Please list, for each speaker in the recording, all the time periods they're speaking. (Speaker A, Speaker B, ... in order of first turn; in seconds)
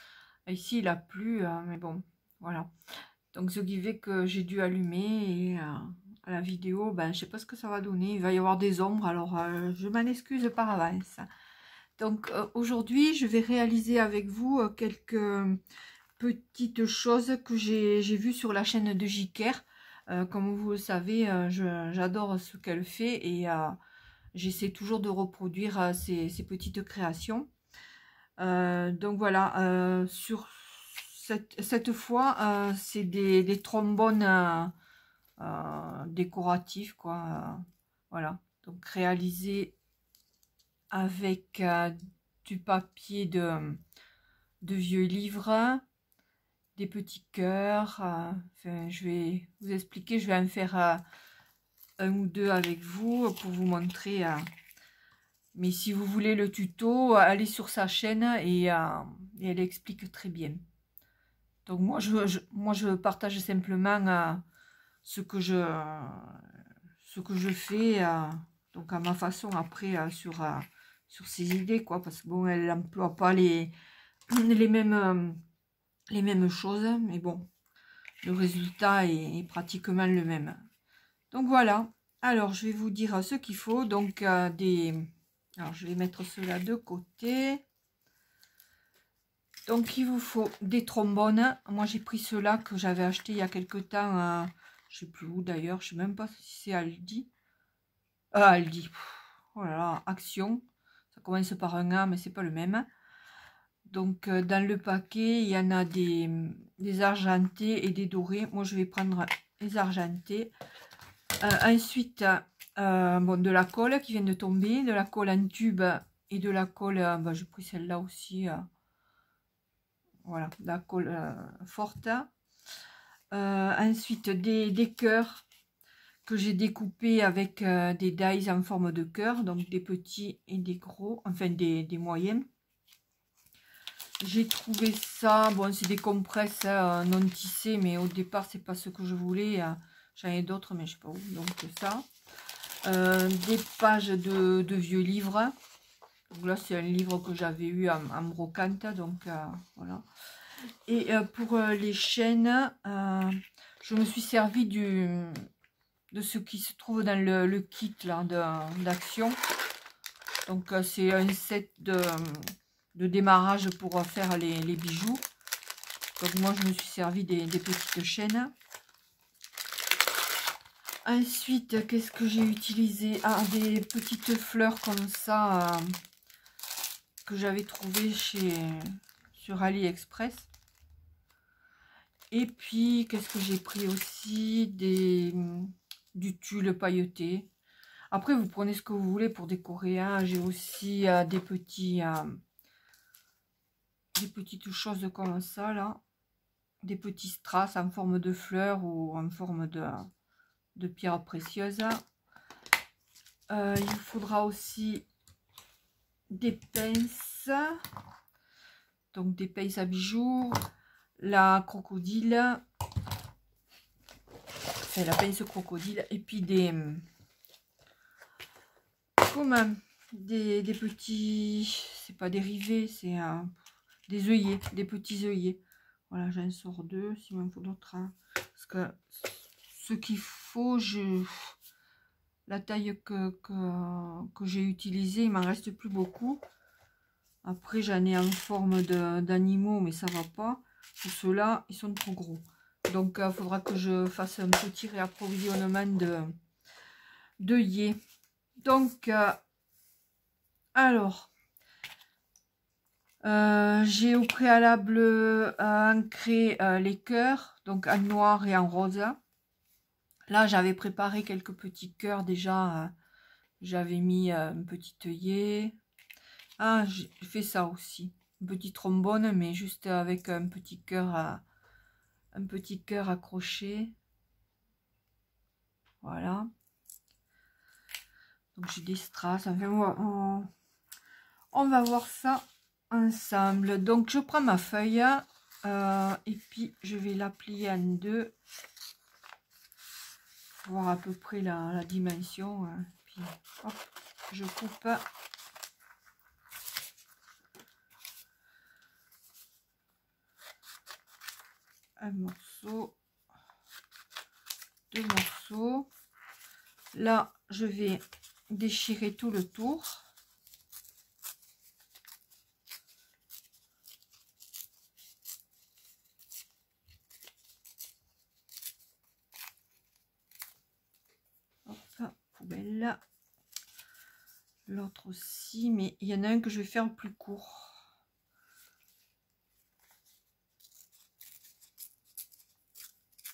Speaker A: 0.5-2.7, 3.3-11.3, 12.0-15.6, 16.2-23.8, 24.3-27.5, 28.4-34.7, 35.4-39.8, 40.9-43.8, 44.6-45.8, 46.8-51.0, 52.0-54.5, 55.5-60.6, 61.7-64.4, 65.0-66.5, 67.0-73.7, 74.3-75.4, 76.1-77.5, 78.2-80.7, 81.3-87.7, 89.7-97.3, 98.3-102.9, 103.8-110.5, 111.4-118.7, 120.2-122.3, 123.3-125.5, 126.2-132.5, 134.2-142.1, 142.8-145.6, 146.3-155.5, 156.1-159.4, 160.5-165.2, 166.2-168.5, 171.0-176.0, 177.2-180.5, 182.3-187.5, 188.1-192.4, 194.2-196.0, 196.8-200.1, 200.8-202.0, 203.5-205.1, 206.3-207.8, 209.1-210.6, 211.2-212.6, 214.9-217.1, 219.2-223.5, 224.1-231.6, 232.5-236.4, 237.4-246.4, 247.4-248.0, 248.6-249.4, 250.8-251.3, 253.2-259.2, 260.3-262.9, 263.6-265.8, 266.6-271.4, 272.4-273.9, 276.0-276.5, 278.6-280.5, 281.5-288.4, 290.6-295.1, 302.0-303.0, 304.9-305.9, 306.9-310.1, 321.7-323.0, 324.7-327.9